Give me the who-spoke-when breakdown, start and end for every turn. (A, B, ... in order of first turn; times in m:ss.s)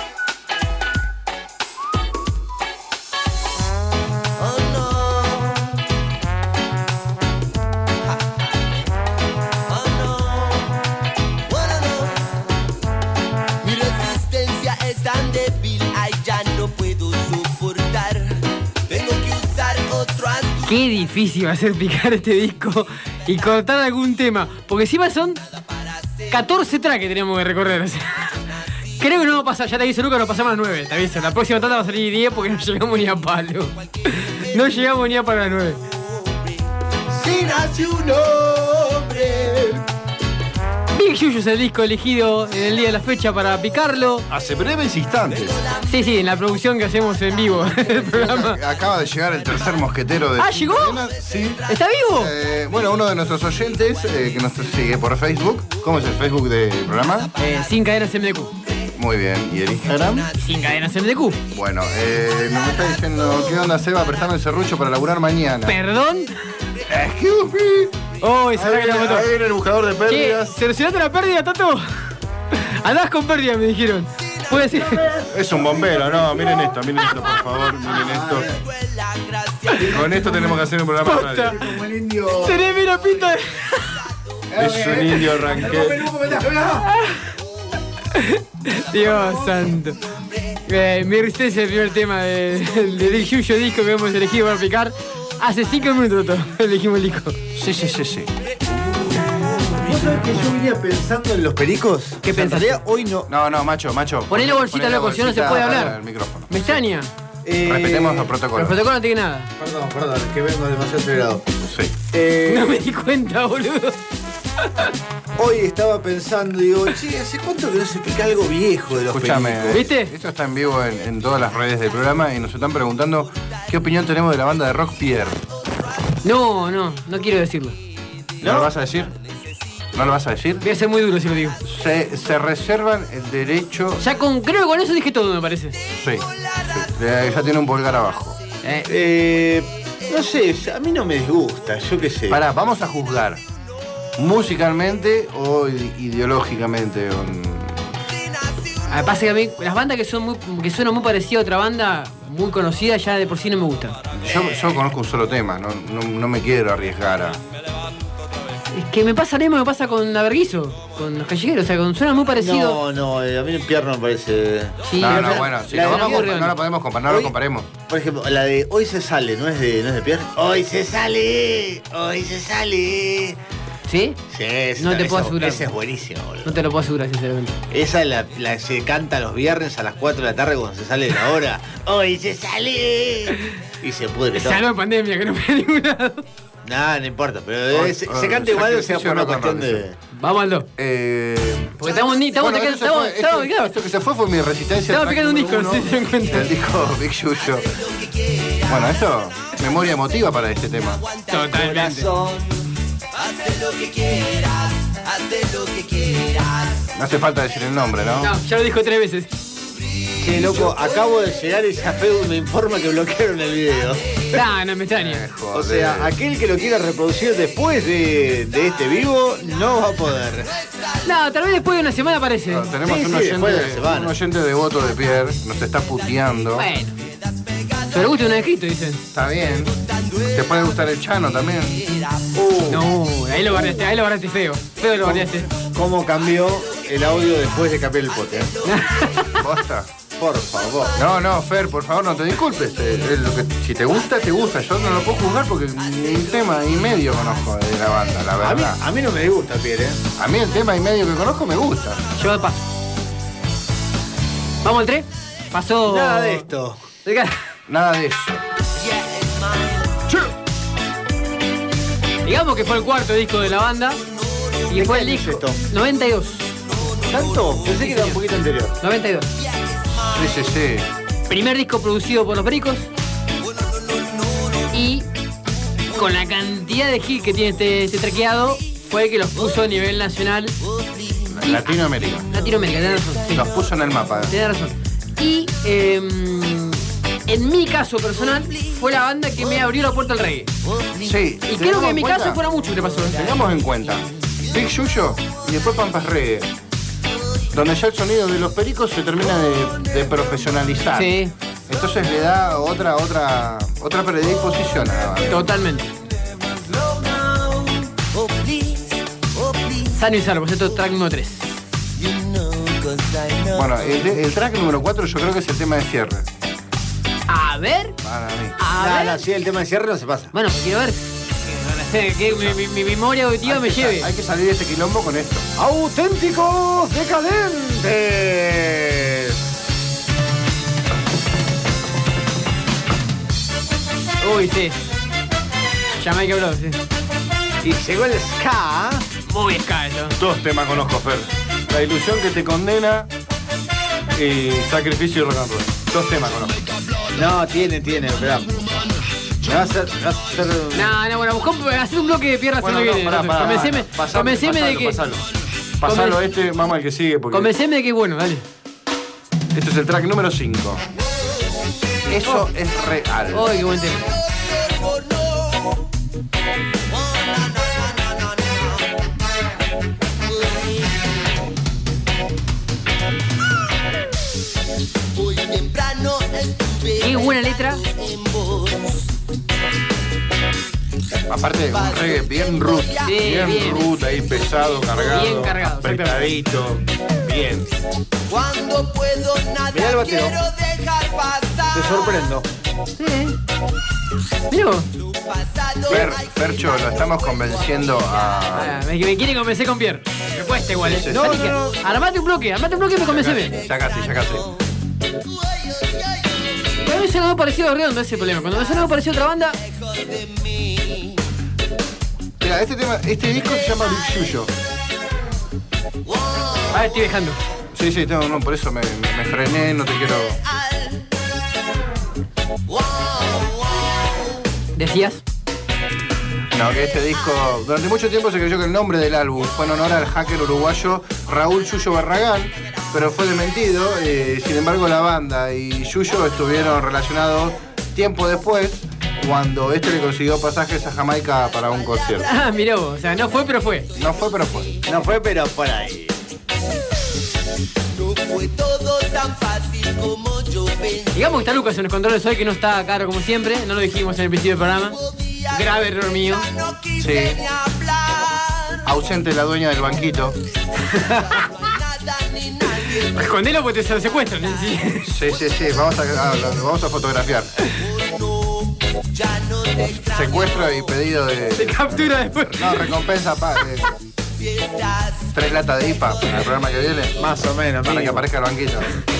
0:04.4-0:05.8 A
0:09.7-0:10.8 A
0:11.5-0:12.3 A
0:13.6-0:20.7 A
0:20.6-0:25.4 B
0:26.3-0:28.4 B
0:29.0-0:35.8 B
0:36.1-0:36.6 A
0:37.2-0:39.8 C
0:40.9-0:44.3 B
0:44.3-0:45.6 D
0:45.5-0:45.8 A
0:45.9-0:48.6 B
0:47.8-0:51.6 D
0:50.4-0:51.1 B
0:51.6-0:52.3 B
0:52.1-0:57.3 D
0:57.4-0:58.5 B
0:58.9-1:00.3 D
1:00.4-1:01.4 B
1:01.5-1:05.8 D
1:05.6-1:06.3 B
1:06.9-1:07.9 D
1:08.2-1:09.3 B
1:08.5-1:10.5 D
1:10.1-1:11.9 B
1:12.5-1:15.0 B
1:14.6-1:15.4 C
1:15.3-1:18.5 D
1:18.0-1:18.5 C
1:18.6-1:19.8 A
1:19.8-1:21.6 D
1:21.0-1:21.8 B
1:21.5-1:22.6 C
1:22.4-1:24.0 B
1:24.5-1:26.9 C
1:24.5-1:26.1 D
1:26.9-1:27.3 B
1:28.1-1:30.0 B
1:30.6-1:37.4 B
1:37.5-1:38.3 D
1:39.0-1:43.3 C
1:42.2-1:42.8 B
1:43.3-1:46.5 D
1:44.3-1:46.0 B
1:46.5-1:47.1 B
1:47.4-1:48.3 C
1:47.6-1:48.8 D
1:48.5-1:49.5 B
1:49.6-1:51.4 C
1:51.6-1:51.9 D
1:52.1-1:52.7 C
1:52.5-1:54.0 B
1:55.4-1:59.8 C
1:59.1-2:05.4 D
1:59.7-2:00.1 B
2:06.2-2:07.8 B
2:08.4-2:08.7 C
2:08.4-2:09.1 D
2:09.9-2:10.6 D
2:10.6-2:11.6 B
2:11.6-2:14.0 D
2:14.0-2:15.8 B
2:16.0-2:18.4 D
2:18.6-2:18.9 B
2:18.8-2:22.4 C
2:22.3-2:23.4 D
2:24.2-2:27.9 D
2:28.9-2:34.0 B
2:34.1-2:37.4 D
2:38.7-2:42.8 B
2:42.4-2:46.4 C
2:44.8-2:46.6 B
2:45.0-2:47.7 D
2:47.9-2:53.4 C
2:53.9-2:54.2 B
2:54.3-2:56.5 C
2:54.8-2:55.7 B
2:56.4-2:57.6 B
2:57.7-3:04.6 C
3:04.3-3:06.2 B
3:06.6-3:10.0 C
3:07.7-3:09.8 D
3:10.1-3:10.7 B
3:10.8-3:17.7 D
3:11.8-3:13.7 B
3:14.9-3:16.5 B
3:17.7-3:18.7 A
3:18.6-3:21.0 D
3:21.3-3:22.1 B
3:21.4-3:22.6 C
3:23.1-3:26.8 A
3:26.9-3:28.3 D
3:28.2-3:29.3 B
3:30.2-3:34.4 C
3:34.3-3:35.2 B
3:34.9-3:36.1 D
3:35.5-3:40.6 C
3:41.0-3:42.7 B
3:42.5-3:46.7 D
3:42.8-3:44.1 C
3:46.5-3:47.0 B
3:47.9-3:49.0 B
3:49.1-3:49.7 D
3:50.3-3:51.8 D
3:51.8-3:52.3 A
3:52.3-3:53.8 C
3:52.7-3:55.5 B
3:55.0-3:58.6 C
3:58.6-3:59.4 B
3:59.0-3:59.4 A
3:59.3-3:59.9 D
4:00.2-4:01.0 C
4:00.9-4:08.8 D
4:08.4-4:10.0 C
4:10.2-4:12.0 D
4:12.2-4:12.6 B
4:14.6-4:16.5 B
4:15.8-4:16.8 C
4:17.0-4:17.4 B
4:17.7-4:18.4 D
4:18.8-4:20.0 A
4:22.2-4:24.0 B
4:24.7-4:26.5 B
4:24.7-4:25.6 C
4:26.8-4:27.6 A
4:27.0-4:28.8 C
4:27.8-4:28.2 B
4:28.8-4:29.3 B
4:29.6-4:30.2 A
4:30.1-4:30.9 D
4:31.3-4:32.9 B
4:33.4-4:34.7 A
4:34.7-4:35.0 B
4:35.9-4:40.6 B
4:40.9-4:41.2 A
4:41.3-4:42.3 D
4:42.3-4:43.5 B
4:43.3-4:44.3 D
4:44.3-4:50.5 B
4:51.0-4:52.4 D
4:51.5-4:53.4 B
4:53.1-4:56.5 D
4:57.5-5:05.5 D
5:00.9-5:01.3 B
5:05.3-5:05.9 B
5:06.5-5:09.9 A
5:09.9-5:11.5 B
5:12.0-5:13.7 A
5:13.5-5:16.2 D
5:17.3-5:18.0 B
5:18.0-5:18.6 D
5:18.6-5:19.2 B
5:18.7-5:20.3 C
5:20.3-5:24.1 B
5:23.4-5:25.5 D
5:25.6-5:29.3 C
5:34.2-5:34.8 B
5:35.9-5:36.8 B
5:37.6-5:39.0 C
5:39.3-5:40.2 B
5:40.2-5:43.1 D
5:44.1-5:46.6 D
5:47.1-5:48.6 C
5:49.4-5:50.9 C
5:50.7-5:55.0 B
5:52.6-5:55.2 D
5:54.4-5:55.0 C
5:55.8-5:57.5 D
5:55.8-5:56.2 B
5:57.3-5:58.4 B
5:59.5-6:00.8 D
6:02.1-6:03.5 D
6:03.3-6:04.1 B
6:04.4-6:05.8 A
6:06.9-6:08.8 A
6:15.2-6:19.0 A
6:17.0-6:17.8 B
6:21.3-6:27.7 D
6:23.0-6:23.8 B
6:25.1-6:26.3 B
6:28.3-6:32.1 A
6:29.7-6:30.3 C
6:31.7-6:32.5 C
6:33.0-6:33.4 B
6:34.5-6:34.9 B
6:35.2-6:38.5 A
6:35.9-6:38.8 D
6:38.5-6:43.6 B
6:40.8-6:41.6 D
6:41.1-6:41.8 C
6:43.0-6:44.5 D
6:46.8-6:49.6 B
6:49.9-6:51.1 A
6:52.4-6:54.5 D
6:56.1-6:56.7 A
6:56.7-6:57.4 B
6:57.7-7:00.4 D
7:00.7-7:01.0 A
7:02.7-7:04.2 A
7:04.7-7:05.2 B
7:06.5-7:22.3 D
7:22.2-7:23.9 B
7:23.9-7:24.7 D
7:24.9-7:26.1 C
7:27.9-7:31.1 A
7:31.1-7:35.0 B
7:35.5-7:36.5 B
7:36.6-7:38.8 A
7:37.0-7:37.4 D
7:38.8-7:40.4 D
7:40.9-7:41.4 B
7:41.2-7:43.1 A
7:43.0-7:45.1 B
7:45.0-7:47.5 D
7:47.9-7:50.7 A
7:50.0-7:53.9 D
7:51.6-7:52.9 B
7:54.4-7:55.3 A
7:55.3-7:57.3 D
7:57.2-7:58.2 C
7:57.8-7:59.0 D